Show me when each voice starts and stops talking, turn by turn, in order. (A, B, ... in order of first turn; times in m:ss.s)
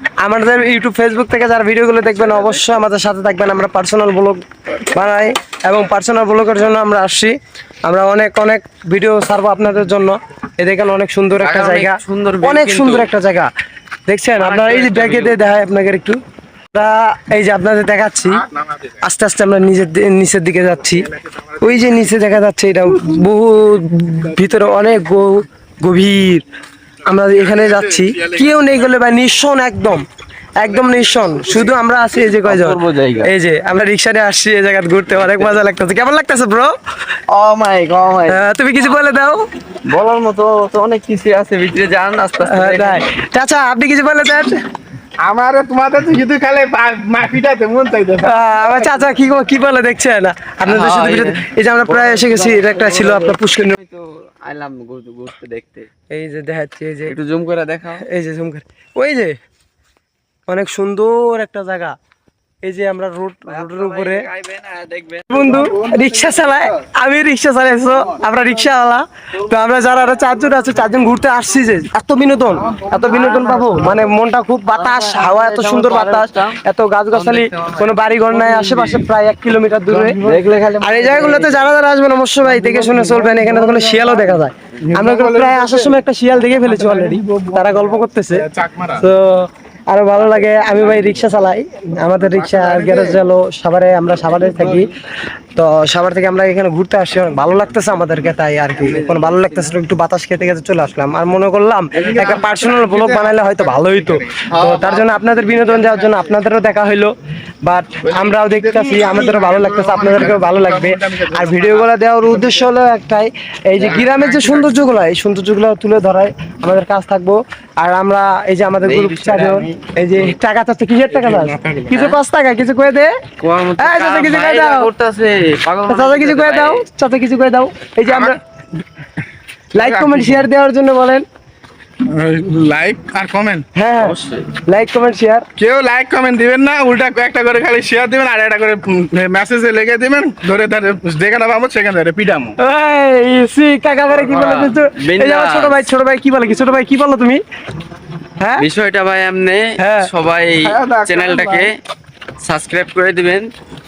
0:00.2-0:07.3 A
0:07.8-0:13.5 A
0:11.4-0:13.1 B
0:14.1-0:16.2 A
0:14.3-0:15.4 B
0:16.7-0:18.5 A
0:19.0-0:26.4 A
0:27.0-0:30.0 A
0:30.6-0:36.7 A
0:32.4-0:33.3 B
0:37.3-0:38.4 B
0:38.3-0:39.4 A
0:39.8-0:43.1 B
0:42.4-0:44.6 A
0:45.2-0:48.7 C
0:48.2-0:53.7 A
0:50.6-0:55.9 B
0:56.1-0:57.2 A
0:57.0-0:58.0 B
0:58.0-0:59.4 A
1:00.5-1:02.0 A
1:02.6-1:04.3 A
1:03.4-1:05.6 B
1:05.3-1:20.2 A
1:05.6-1:06.7 C
1:09.5-1:09.9 B
1:12.7-1:13.8 C
1:14.7-1:19.1 B
1:20.0-1:20.4 C
1:20.2-1:21.7 B
1:20.8-1:35.0 A
1:22.6-1:26.0 C
1:26.6-1:29.0 C
1:32.3-1:33.2 C
1:35.5-1:47.1 A
1:38.8-1:39.7 B
1:42.0-1:44.4 C
1:44.5-1:46.2 B
1:47.6-2:03.1 A
1:48.0-1:51.9 C
1:53.8-1:54.1 B
1:53.9-1:54.7 C
1:58.8-2:00.3 B
2:01.2-2:01.9 C
2:01.9-2:02.2 B
2:03.4-2:06.8 B
2:03.8-2:04.9 A
2:05.9-2:08.4 A
2:08.1-2:08.4 C
2:09.7-2:11.2 A
2:09.8-2:10.5 C
2:12.0-2:13.6 C
2:13.7-2:15.5 A
2:14.0-2:14.6 B
2:15.6-2:22.6 C
2:22.6-2:27.4 A
2:24.1-2:25.9 B
2:28.4-2:28.6 A
2:28.6-2:31.8 B
2:29.8-2:30.1 A
2:30.6-2:31.7 C
2:32.4-2:33.5 B